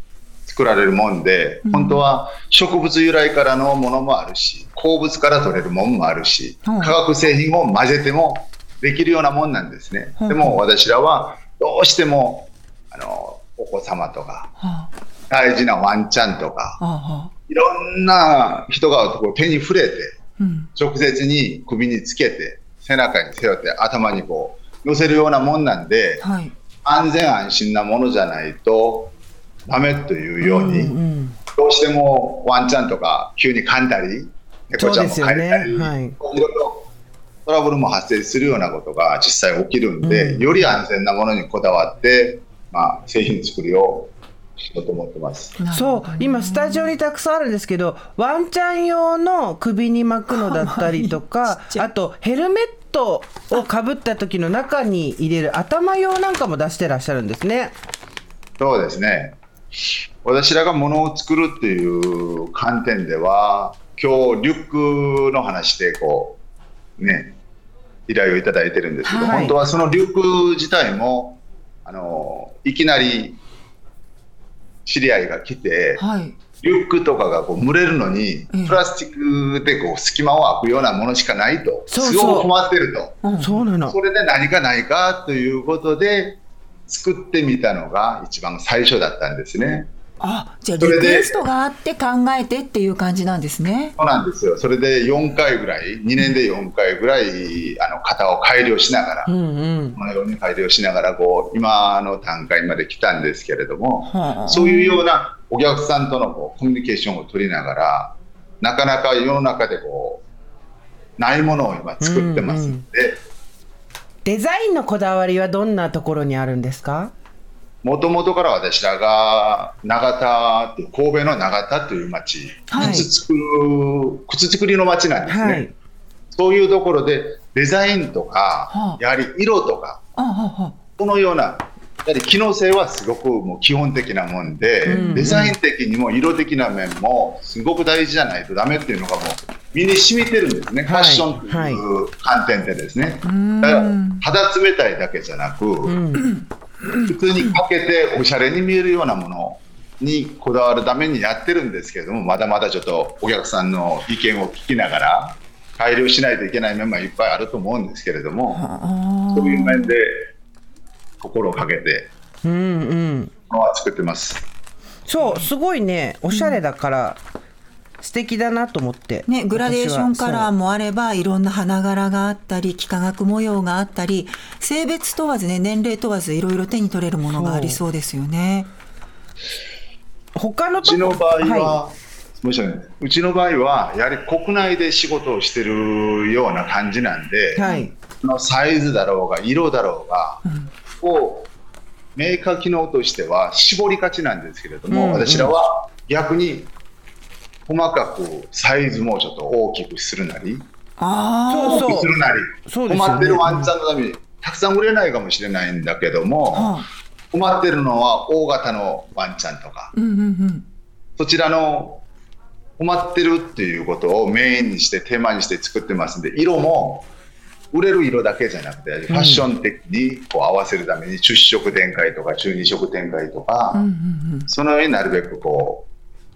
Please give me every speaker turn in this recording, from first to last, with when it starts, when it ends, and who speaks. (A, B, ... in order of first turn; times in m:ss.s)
0:00.4-0:14.5 A
0:01.6-0:02.0 B
0:06.6-0:07.0 B
0:10.2-0:10.6 B
0:14.6-0:14.9 B
0:15.3-0:16.8 A
0:16.8-0:17.3 B
0:17.5-0:20.1 A
0:20.4-0:20.7 B
0:20.8-0:26.2 A
0:26.2-0:26.5 B
0:26.8-0:29.1 A
0:29.7-0:30.9 A
0:30.4-0:31.4 C
0:31.5-0:36.9 A
0:34.8-0:36.2 C
0:37.4-0:44.1 A
0:40.0-0:40.7 C
0:44.7-0:45.6 A
0:45.6-0:46.9 B
0:45.7-0:57.8 C
0:50.3-0:51.9 B
0:58.6-1:06.4 A
1:07.0-1:07.4 A
1:08.1-1:13.4 A
1:09.0-1:09.5 B
1:09.1-1:09.6 C
1:14.8-1:16.0 A
1:16.0-1:16.4 B
1:16.6-1:23.2 A
1:18.5-1:18.8 B
1:21.9-1:22.5 C
1:23.2-1:23.6 B
1:23.4-1:24.0 C
1:23.8-1:29.9 A
1:30.2-1:33.9 B
1:30.8-1:31.4 A
1:34.0-1:39.3 A
1:39.2-1:40.0 C
1:39.9-1:50.2 A
1:44.0-1:45.0 B
1:51.2-1:53.2 A
1:52.0-1:52.8 C
1:54.2-1:57.1 C
1:57.8-2:05.7 A
2:02.7-2:03.1 B
2:05.3-2:05.7 C
2:06.3-2:10.0 A
2:08.7-2:09.0 B
2:10.2-2:10.8 B
2:11.0-2:26.0 A
2:14.8-2:15.3 B
2:14.8-2:15.6 C
2:20.8-2:21.8 C
2:23.2-2:24.2 B
2:25.8-2:26.3 C
2:26.2-2:27.6 B
2:27.1-2:38.6 A
2:38.5-2:39.9 B
2:39.3-2:40.3 A
2:41.2-2:42.1 A
2:42.4-2:43.3 C
2:43.5-2:44.5 A
2:45.1-2:47.2 C
2:45.2-2:45.5 B
2:46.3-2:46.6 B
2:48.0-2:50.5 C
2:49.3-2:58.7 B
2:57.2-2:57.8 C
3:00.4-3:01.8 C
3:00.8-3:07.6 A
3:07.6-3:07.9 C
3:07.6-3:07.9 B
3:08.2-3:10.4 A
3:10.4-3:10.7 B
3:11.0-3:11.5 A
3:12.2-3:16.7 A
3:14.9-3:15.5 C
3:17.7-3:20.6 A
3:21.0-3:21.9 B
3:21.5-3:22.1 C
3:21.6-3:26.8 A
3:22.7-3:23.7 C
3:26.5-3:26.8 B
3:27.3-3:29.9 A
3:29.9-3:30.6 B
3:31.2-3:32.0 A
3:32.8-3:37.1 A
3:37.7-3:43.8 A
3:39.1-3:39.4 C
3:43.7-3:44.5 B
3:44.5-3:45.9 A